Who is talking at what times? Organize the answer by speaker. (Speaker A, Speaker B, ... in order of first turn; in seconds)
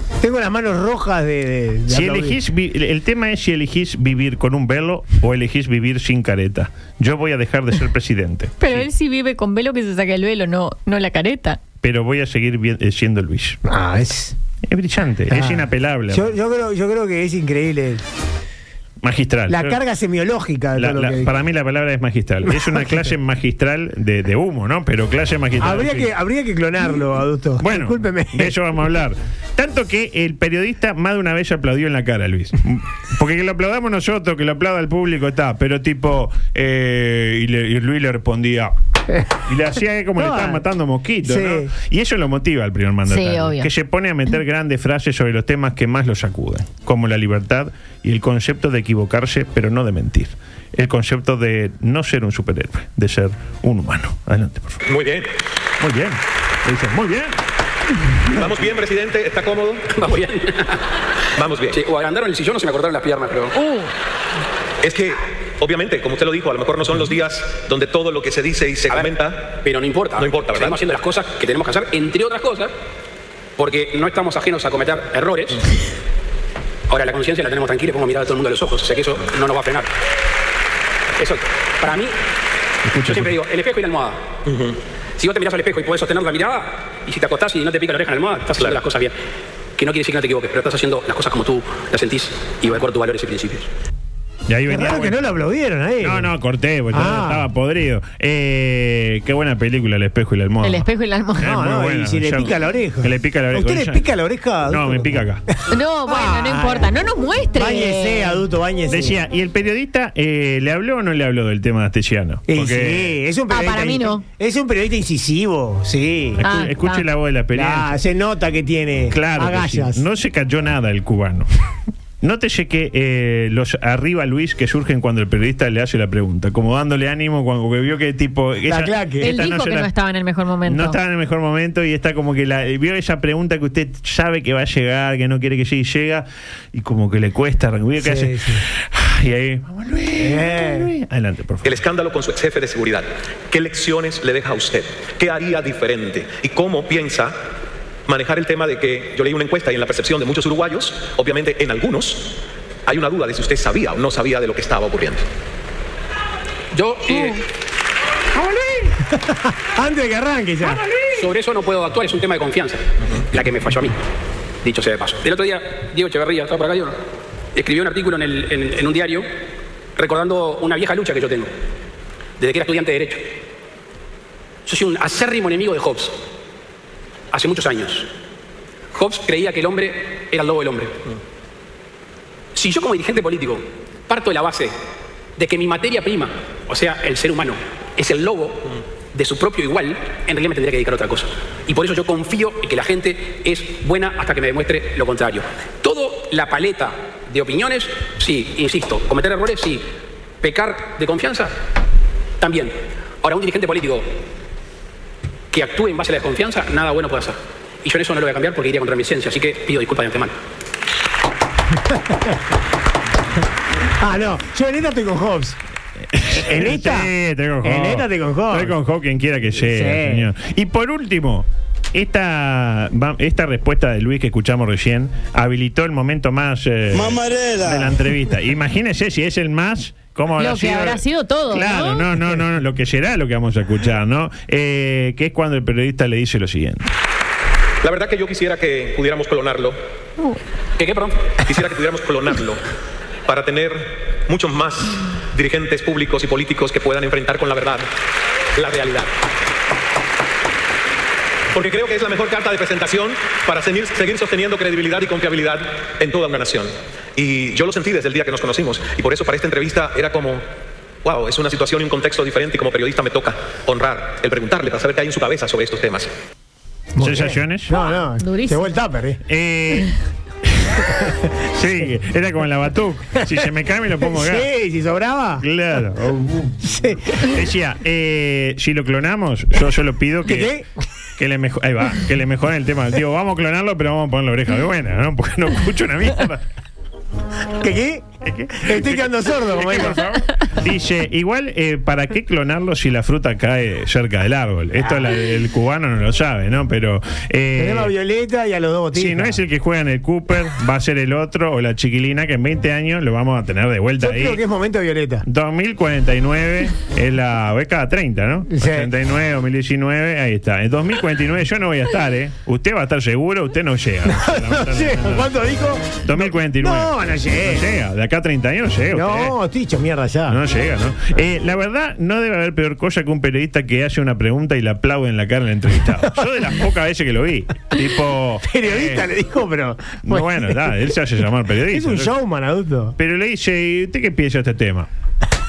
Speaker A: 0.2-2.4, 13.6-14.3, 15.3-18.0, 19.5-21.3, 22.4-23.1, 25.6-28.6, 40.1-40.6, 41.2-41.7, 94.7-96.3, 96.9-97.5, 101.4-105.2, 106.1-106.9, 107.5-109.2, 112.5-116.4, 117.5-120.0, 128.6-129.3, 138.0-138.6, 140.2-140.9, 158.7-160.8, 214.0-215.6, 216.3-217.1, 217.6-218.8, 219.6-220.3, 266.9-269.2, 274.0-275.4, 276.7-277.3, 280.2-280.6, 287.6-290.1, 294.8-295.1, 297.6-299.4, 304.0-305.2, 308.5-308.9, 314.1-317.7, 318.9-320.4, 328.4-330.9, 331.7-332.9
Speaker B: 1.9-8.8, 11.8-13.6, 14.7-16.4, 19.0-19.8, 20.7-26.1, 27.6-38.7, 39.5-54.8, 55.8-57.4, 82.8-83.3, 94.5-95.3, 96.0-100.9, 101.4-104.0, 104.7-105.4, 108.9-113.2, 116.4-117.9, 119.1-121.5, 122.2-129.9, 130.6-141.8, 216.1-236.9, 267.0-267.8, 269.3-269.9, 270.4-270.9, 271.5-274.5, 275.4-280.5, 281.2-286.4, 288.2-297.9, 298.9-304.4, 305.2-315.3, 316.0-319.3, 320.3-329.1, 330.0-332.1, 333.0-334.9
Speaker C: 8.6-11.6, 43.1-43.7, 100.6-101.5, 105.7-108.4, 113.5-114.2, 116.4-117.0, 129.2-131.0, 230.4-232.0, 268.2-268.8
Speaker D: 54.9-55.3, 58.3-60.0, 61.4-61.8, 64.8-69.5, 70.2-70.8, 84.5-84.8, 141.6-147.3, 148.1-155.2, 237.8-239.8, 241.4-242.6, 243.2-247.9, 248.6-249.1, 251.5-260.4, 261.0-266.1
Speaker E: 59.9-60.8, 61.7-63.5, 68.9-72.7, 73.6-75.6, 76.9-79.9, 81.2-82.1, 83.0-84.2, 85.2-89.1, 89.8-93.7, 156.7-157.4, 161.1-164.0, 164.6-167.0, 167.5-169.3, 169.9-171.5, 172.4-173.3, 174.7-176.2, 177.3-178.1, 178.9-181.0, 182.5-184.8, 185.4-199.8, 200.4-201.5, 202.4-204.1, 205.5-210.3, 240.8-241.3